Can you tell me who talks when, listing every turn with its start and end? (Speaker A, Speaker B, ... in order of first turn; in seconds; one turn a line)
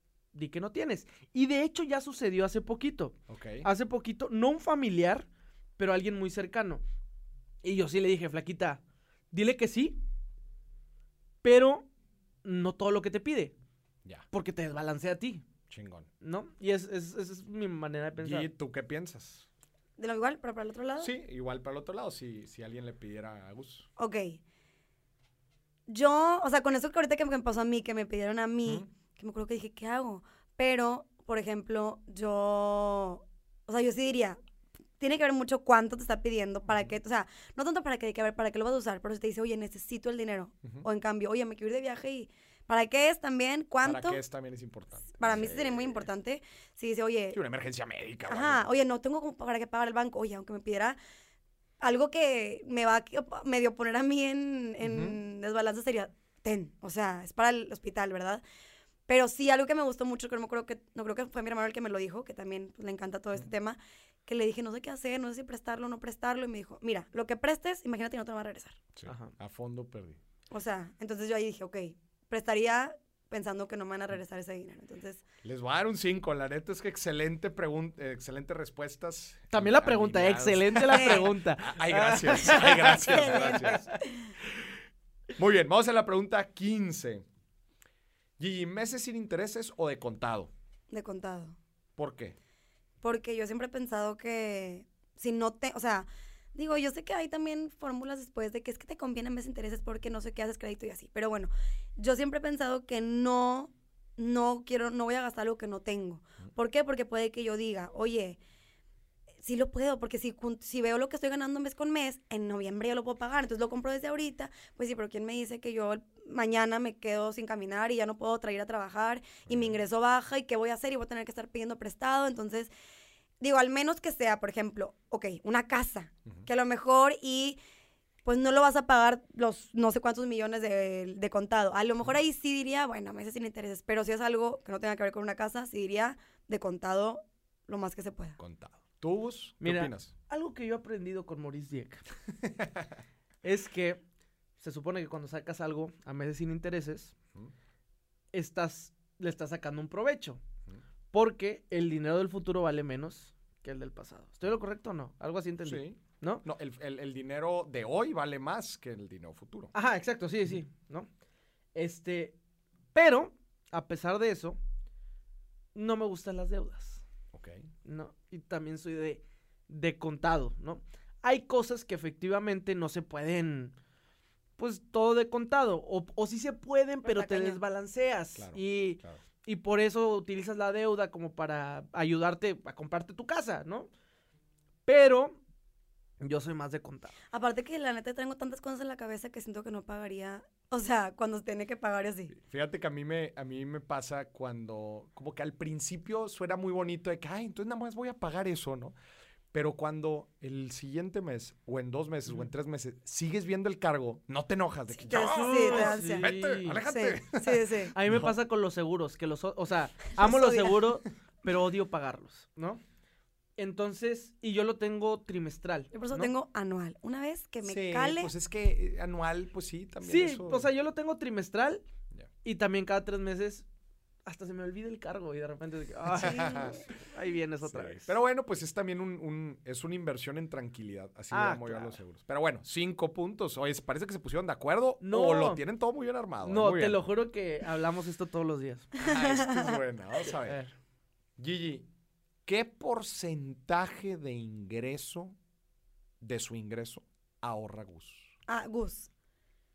Speaker A: 0.3-5.3
Speaker B: 3.3-3.7
Speaker A: 5.8-6.8
Speaker A: 7.6-8.8
Speaker A: 9.3-10.0
Speaker A: 11.4-11.9
Speaker A: 12.4-13.5
Speaker A: 14.3-15.4
Speaker B: 15.7-16.1
Speaker A: 16.2-18.5
Speaker B: 18.2-19.5
Speaker C: 20.0-21.1
Speaker B: 21.0-23.9
Speaker C: 24.0-24.4
Speaker C: 25.9-34.4
Speaker C: 35.0-44.2
Speaker B: 43.8-46.0
Speaker C: 45.2-47.4
Speaker B: 47.3-48.7
Speaker C: 48.3-51.0
Speaker C: 51.8-58.4
Speaker B: 54.8-55.2
Speaker C: 59.1-68.8
Speaker B: 69.0-70.2
Speaker A: 69.1-69.3
Speaker C: 70.5-75.2
Speaker B: 75.4-83.9
Speaker A: 79.5-83.9
Speaker C: 80.9-81.3
Speaker C: 83.1-84.3
Speaker B: 84.5-84.7
Speaker B: 85.4-87.3
Speaker B: 88.4-90.5
Speaker C: 90.9-91.6
Speaker B: 92.0-92.4
Speaker C: 93.0-108.4
Speaker C: 109.4-122.7
Speaker B: 119.5-119.8
Speaker C: 123.4-127.6
Speaker C: 128.2-138.4
Speaker B: 138.4-140.1
Speaker A: 139.6-142.0
Speaker B: 142.4-142.9
Speaker A: 143.4-144.0
Speaker A: 144.6-147.1
Speaker A: 148.3-150.4
Speaker A: 151.1-156.4
Speaker B: 155.6-159.7
Speaker A: 159.7-161.1
Speaker A: 161.8-162.4
Speaker A: 162.9-164.6
Speaker A: 165.8-167.0
Speaker B: 167.3-167.7
Speaker A: 167.8-173.7
Speaker A: 174.6-183.9
Speaker C: 177.1-177.6
Speaker B: 178.4-179.2
Speaker A: 184.9-185.4
Speaker A: 186.2-187.2
Speaker C: 187.3-192.3
Speaker B: 192.3-198.9
Speaker B: 199.5-208.3
Speaker C: 204.9-206.3
Speaker A: 205.1-206.8
Speaker C: 206.8-207.9
Speaker A: 207.9-212.8
Speaker C: 210.2-210.9
Speaker A: 213.6-216.3
Speaker C: 215.9-218.3
Speaker B: 217.6-220.7
Speaker A: 220.0-221.8
Speaker A: 222.4-223.7
Speaker A: 224.3-228.1
Speaker B: 226.1-226.8
Speaker C: 226.2-226.8
Speaker B: 227.7-237.0
Speaker A: 231.3-232.0
Speaker A: 235.0-235.6
Speaker A: 236.4-238.9
Speaker B: 239.0-240.6
Speaker C: 239.0-239.8
Speaker A: 240.4-240.7
Speaker B: 241.4-241.9
Speaker B: 242.5-245.4
Speaker B: 246.2-248.3
Speaker C: 248.5-249.1